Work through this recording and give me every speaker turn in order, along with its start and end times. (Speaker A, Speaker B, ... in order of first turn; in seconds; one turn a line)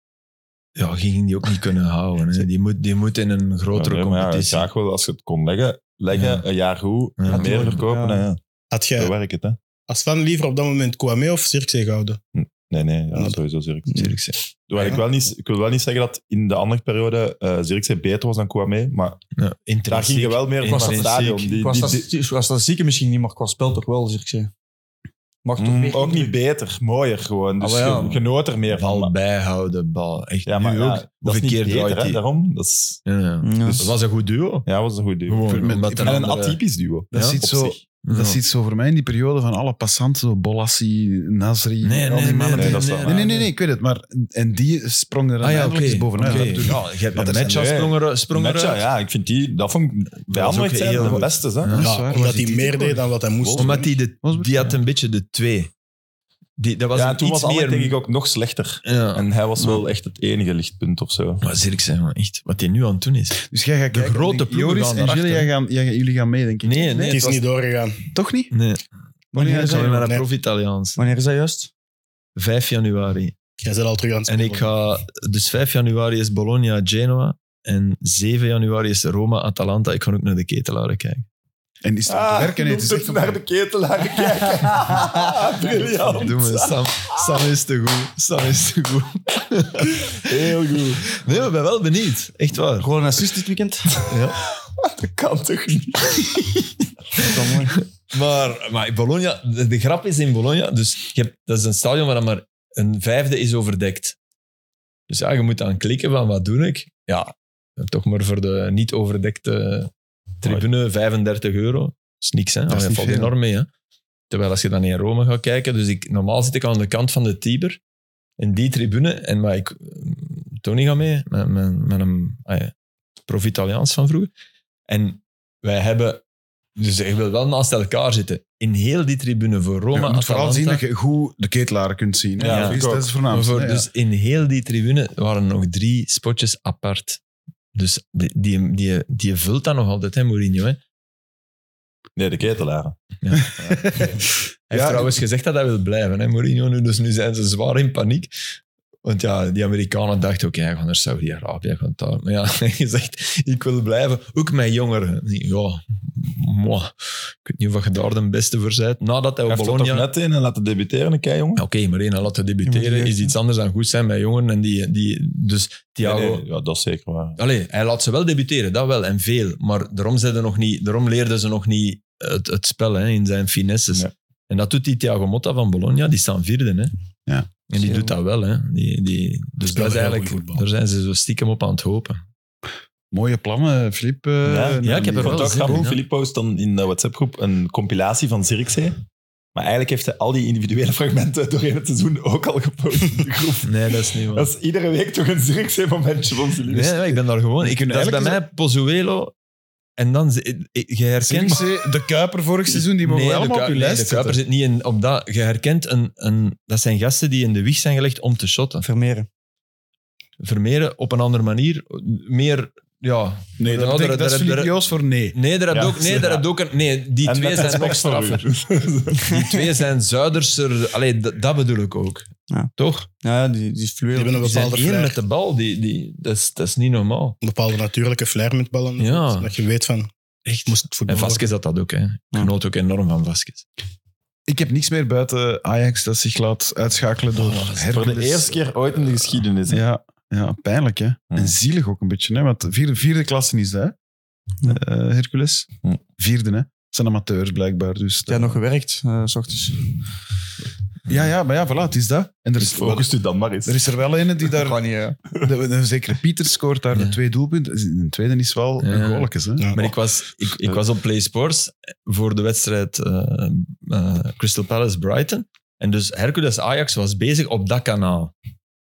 Speaker A: 0.8-4.7
Speaker B: 3.7-8.4
Speaker A: 6.1-6.4
Speaker A: 7.2-7.8
Speaker C: 7.3-8.2
Speaker D: 8.7-9.1
Speaker B: 9.0-9.6
Speaker D: 9.9-12.2
Speaker B: 12.3-14.1
Speaker A: 13.9-14.4
Speaker B: 14.7-19.2
Speaker A: 19.4-21.4
Speaker B: 19.9-22.1
Speaker C: 20.6-24.5
Speaker C: 25.4-26.3
Speaker B: 25.6-29.1
Speaker C: 27.6-28.2
Speaker A: 28.7-32.2
Speaker B: 30.4-33.0
Speaker A: 33.0-34.7
Speaker C: 33.4-33.9
Speaker B: 33.7-33.9
Speaker B: 34.6-37.8
Speaker A: 35.3-36.6
Speaker E: 35.5-36.3
Speaker E: 37.1-47.6
Speaker A: 37.1-37.4
Speaker A: 38.0-38.4
Speaker A: 41.8-43.2
Speaker B: 42.5-43.4
Speaker A: 45.4-48.8
Speaker B: 47.1-51.8
Speaker A: 50.3-51.8
Speaker E: 51.7-53.0
Speaker D: 51.8-53.9
Speaker B: 53.4-53.8
Speaker A: 53.6-55.7
Speaker E: 54.2-54.8
Speaker A: 56.6-58.0
Speaker B: 56.9-61.4
Speaker A: 58.9-59.3
Speaker A: 61.4-65.5
Speaker E: 63.5-67.2
Speaker A: 66.6-67.4
Speaker D: 67.1-68.1
Speaker E: 68.1-68.5
Speaker A: 68.5-68.8
Speaker C: 69.3-70.0
Speaker E: 69.3-69.8
Speaker A: 69.4-71.0
Speaker D: 69.6-70.2
Speaker C: 71.0-71.7
Speaker A: 72.3-73.3
Speaker D: 73.6-74.7
Speaker A: 74.3-81.2
Speaker E: 81.8-83.4
Speaker B: 82.1-87.4
Speaker A: 86.1-90.3
Speaker B: 90.1-91.2
Speaker A: 91.1-92.9
Speaker C: 92.8-93.9
Speaker B: 94.0-96.7
Speaker A: 94.1-94.4
Speaker C: 97.2-97.8
Speaker A: 97.2-104.2
Speaker A: 105.1-113.7
Speaker E: 112.7-113.3
Speaker A: 114.3-117.8
Speaker A: 118.4-122.7
Speaker A: 123.3-124.3
Speaker A: 124.9-126.2
Speaker A: 126.8-130.8
Speaker E: 129.9-133.9
Speaker B: 132.4-133.1
Speaker A: 132.4-137.2
Speaker A: 137.7-140.8
Speaker B: 142.2-143.0
Speaker A: 143.2-144.0
Speaker B: 143.5-144.1
Speaker E: 143.7-144.2
Speaker A: 144.7-148.3
Speaker E: 144.7-145.2
Speaker A: 149.0-160.1
Speaker B: 159.5-161.6
Speaker A: 161.6-166.4
Speaker C: 162.7-163.3
Speaker B: 166.0-167.4
Speaker A: 167.4-176.9
Speaker A: 177.7-182.2
Speaker D: 179.6-180.6
Speaker E: 183.1-185.9
Speaker B: 184.4-189.0
Speaker A: 184.8-186.0
Speaker B: 189.6-196.9
Speaker A: 193.6-194.5
Speaker A: 196.7-199.3
Speaker E: 197.6-198.4
Speaker A: 200.0-201.7
Speaker E: 201.2-204.4
Speaker A: 203.0-208.8
Speaker C: 208.8-209.3
Speaker A: 210.4-214.7
Speaker E: 213.6-215.4
Speaker A: 215.3-218.5
Speaker B: 215.7-216.4
Speaker B: 217.2-219.4
Speaker A: 219.2-223.1
Speaker C: 223.2-224.6
Speaker D: 224.1-225.2
Speaker A: 224.4-227.4
Speaker D: 227.4-230.1
Speaker A: 229.0-229.5
Speaker A: 230.4-233.7
Speaker D: 230.7-231.5
Speaker E: 234.5-238.6
Speaker A: 237.3-237.8
Speaker B: 237.9-239.8
Speaker E: 239.7-243.9
Speaker E: 244.6-248.6
Speaker C: 248.3-249.8
Speaker E: 251.1-253.1
Speaker B: 252.6-253.8
Speaker E: 253.6-254.8
Speaker C: 254.6-255.2
Speaker E: 255.4-259.7
Speaker A: 258.8-268.3